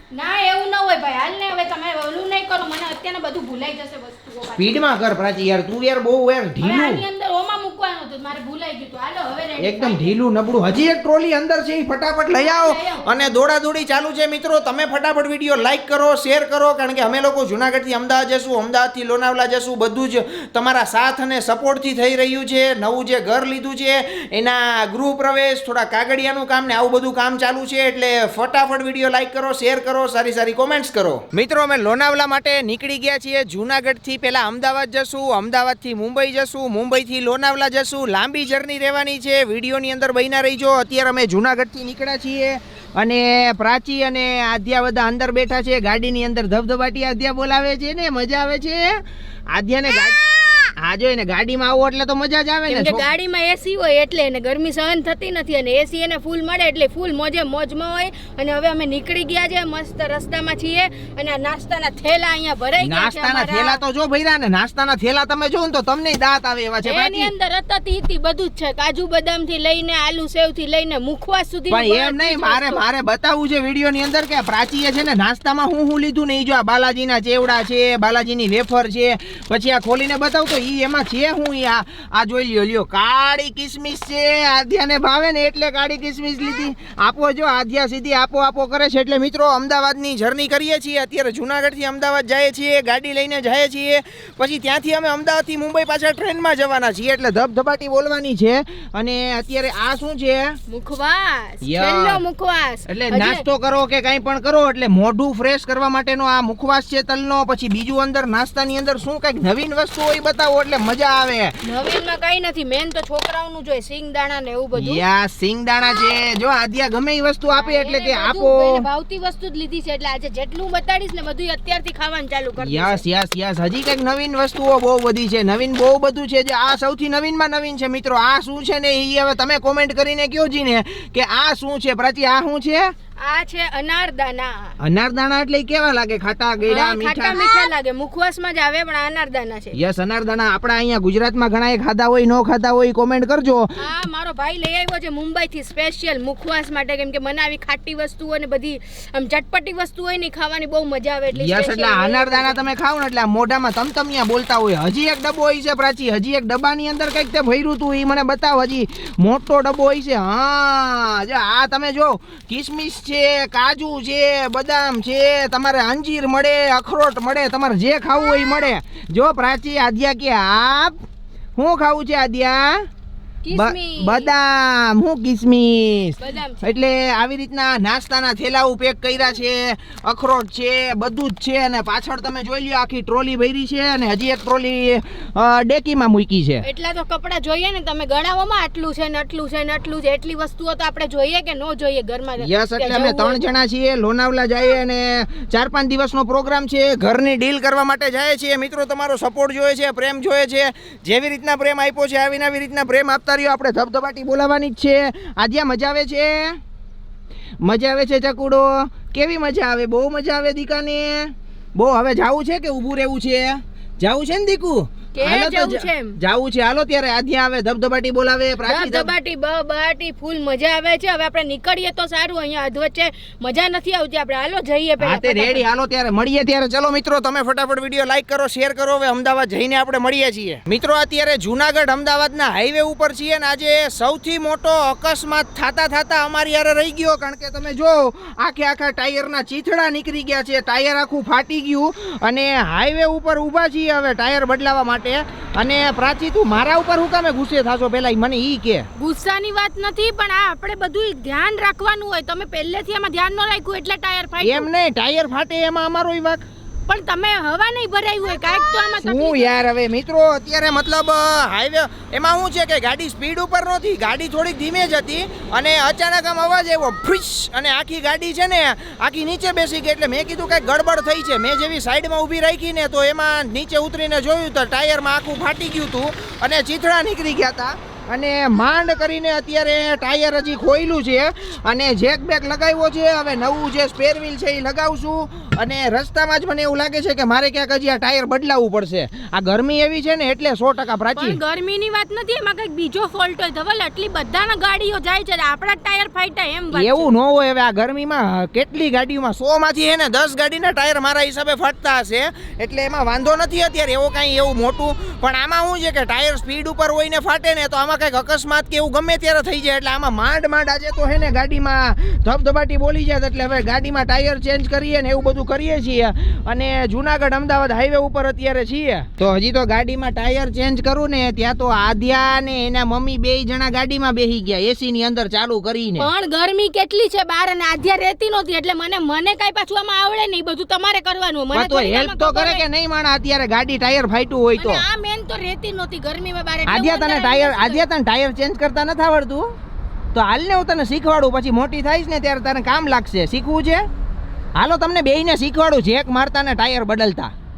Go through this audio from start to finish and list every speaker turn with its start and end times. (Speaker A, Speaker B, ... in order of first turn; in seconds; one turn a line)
Speaker A: 0.1-5.1
Speaker B: 4.6-7.0
Speaker A: 6.6-10.2
Speaker B: 9.6-48.8
Speaker A: 12.3-13.3
Speaker B: 49.5-53.0
Speaker A: 52.7-63.8
Speaker B: 62.8-67.3
Speaker A: 66.8-72.8
Speaker B: 71.7-100.5
Speaker A: 100.7-103.4
Speaker B: 101.6-102.2
Speaker B: 102.9-111.6
Speaker A: 111.6-115.0
Speaker B: 114.8-118.8
Speaker A: 117.5-123.0
Speaker B: 122.6-132.9
Speaker A: 133.2-134.8
Speaker B: 134.8-137.4
Speaker A: 136.7-139.8
Speaker B: 139.7-143.7
Speaker A: 143.8-152.6
Speaker B: 151.3-171.0
Speaker B: 171.6-172.8
Speaker A: 173.4-174.3
Speaker B: 173.5-186.6
Speaker A: 176.2-176.7
Speaker A: 186.6-193.4
Speaker B: 192.4-206.6
Speaker B: 207.6-219.1
Speaker A: 215.1-216.2
Speaker A: 218.6-225.6
Speaker B: 225.0-248.9
Speaker A: 248.9-254.7
Speaker B: 254.4-256.4
Speaker A: 256.9-259.6
Speaker B: 259.0-291.4
Speaker A: 291.1-297.1
Speaker B: 296.7-326.1
Speaker A: 326.0-332.6
Speaker B: 331.5-334.8
Speaker A: 334.6-337.9
Speaker B: 336.7-339.5
Speaker B: 340.1-343.8
Speaker B: 344.6-347.3